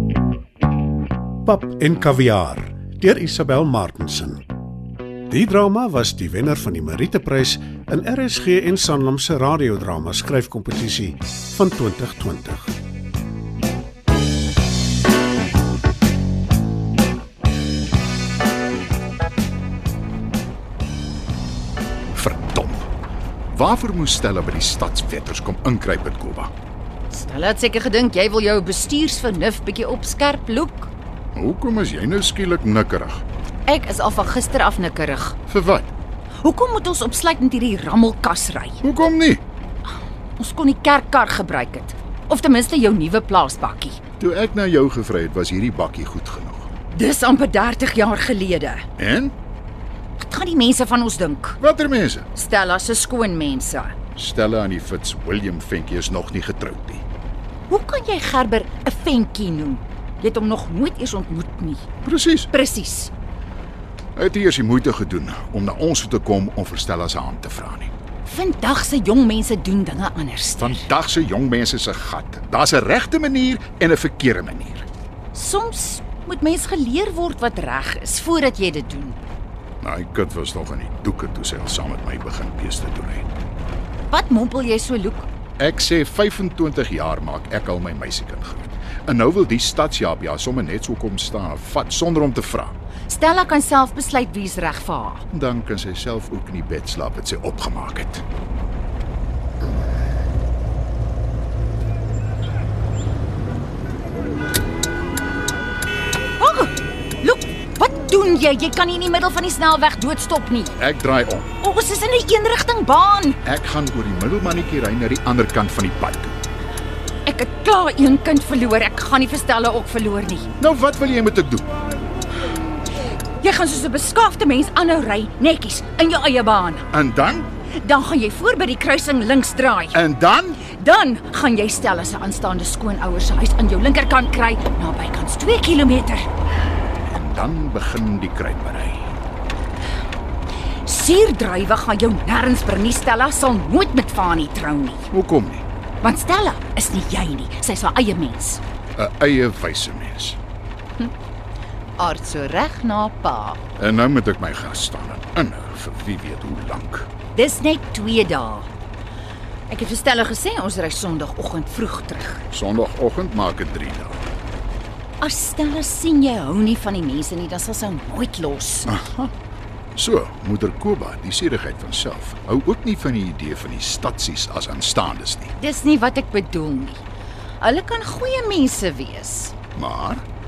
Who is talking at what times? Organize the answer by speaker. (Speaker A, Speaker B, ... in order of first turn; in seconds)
Speaker A: 1.4-4.4, 5.3-12.7
Speaker B: 22.1-22.9, 23.5-26.5, 31.3-33.2, 35.5-35.9, 38.8-39.4, 44.2-46.7, 49.0-49.3, 51.6-52.2, 54.2-57.0, 62.0-62.5, 64.1-67.9, 70.6-74.9, 79.8-83.3, 85.6-92.8, 95.3-98.2, 110.8-111.5, 113.4-116.4, 120.6-121.7, 126.9-127.5, 129.9-130.6, 136.9-139.1, 145.1-145.7, 148.9-150.4, 153.8-157.1, 162.5-164.2, 168.9-169.3, 169.9-175.5, 179.8-180.2
Speaker C: 27.1-30.9, 33.7-35.4, 36.4-38.8, 40.4-44.0, 46.9-48.9, 50.2-51.6, 52.3-53.9, 57.7-61.9, 62.5-63.1, 68.2-70.8, 75.3-79.2, 84.1-85.3, 93.1-95.2, 106.4-110.8, 111.6-113.4, 117.2-120.5, 123.4-126.9, 127.8-130.0, 130.7-136.3, 140.8-145.1, 146.0-148.6, 152.0-153.6, 157.3-158.7, 159.7-162.4, 165.2-168.9, 175.6-177.0, 177.6-179.5